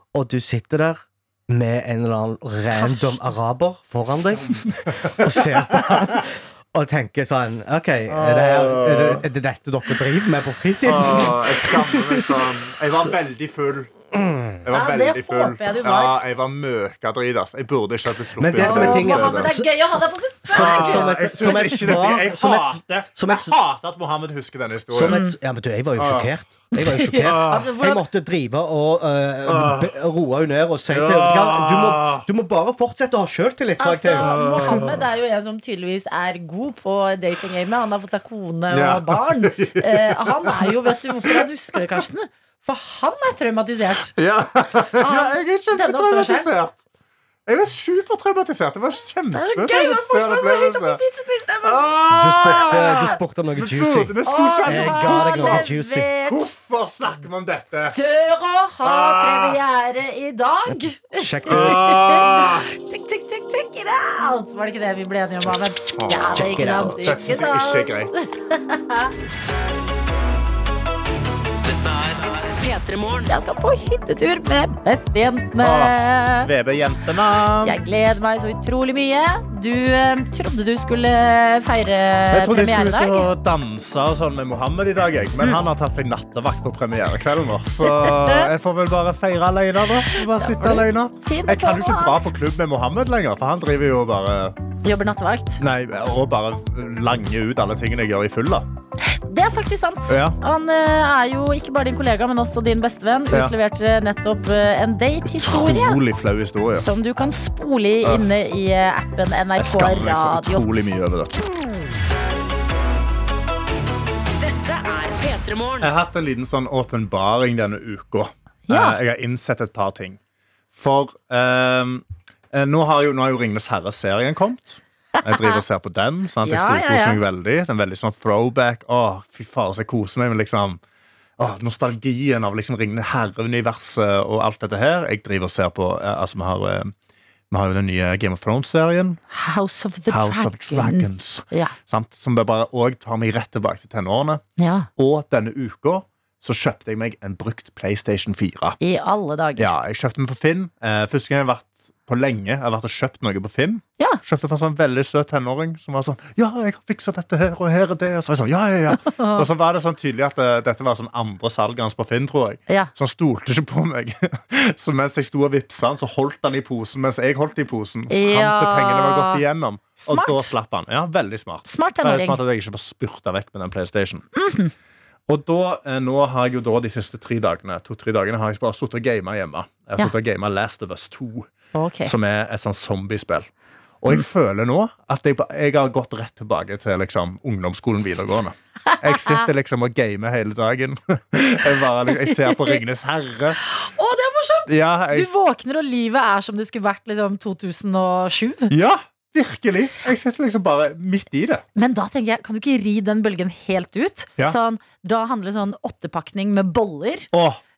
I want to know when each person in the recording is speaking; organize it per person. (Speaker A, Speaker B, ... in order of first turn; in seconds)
Speaker A: 0.1-12.4, 14.2-14.6, 18.4-19.7, 20.5-23.6, 24.9-34.9, 52.1-56.1, 60.7-62.0, 66.3-67.0
Speaker B: 2.7-3.2, 14.7-16.2, 18.6-22.0, 25.1-25.4, 26.8-28.0, 33.8-44.1, 45.0-46.5, 49.3-51.9, 54.2-56.5, 57.9-69.1, 73.3-76.5, 77.6-83.3, 87.9-88.5, 90.2-92.3, 94.8-95.6, 99.1-106.0, 106.7-110.7, 118.7-119.0, 125.2-125.6, 126.4-127.2, 139.3-141.7, 144.6-144.9, 148.8-149.8, 158.9-159.5, 168.1-169.4, 170.0-170.5, 171.7-172.4, 174.4-174.7, 181.7-182.1, 188.9-189.5, 192.2-192.8, 193.7-198.7, 201.8-207.3
Speaker C: 4.4-6.1, 8.1-9.2, 10.8-13.9, 14.6-19.6, 20.5-25.3, 26.0-26.3, 27.3-27.7, 29.5-29.9, 30.9-32.3, 34.2-35.0, 38.7-41.5, 44.1-46.8, 47.5-51.0, 51.6-55.7, 56.2-58.0, 58.8-59.6, 61.5-62.7, 65.5-68.1, 75.6-77.8, 82.3-94.6, 95.6-98.7, 100.1-100.4, 105.2-106.9, 109.6-111.4, 115.8-120.2, 120.7-130.8, 131.4-136.9, 137.5-139.2, 140.1-144.4, 145.0-148.8, 149.6-174.3, 175.3-181.5, 182.0-183.5, 184.0-193.6, 194.7-195.3, 198.7-201.6, 207.3-207.6
Speaker D: 71.6-73.3, 114.4-115.9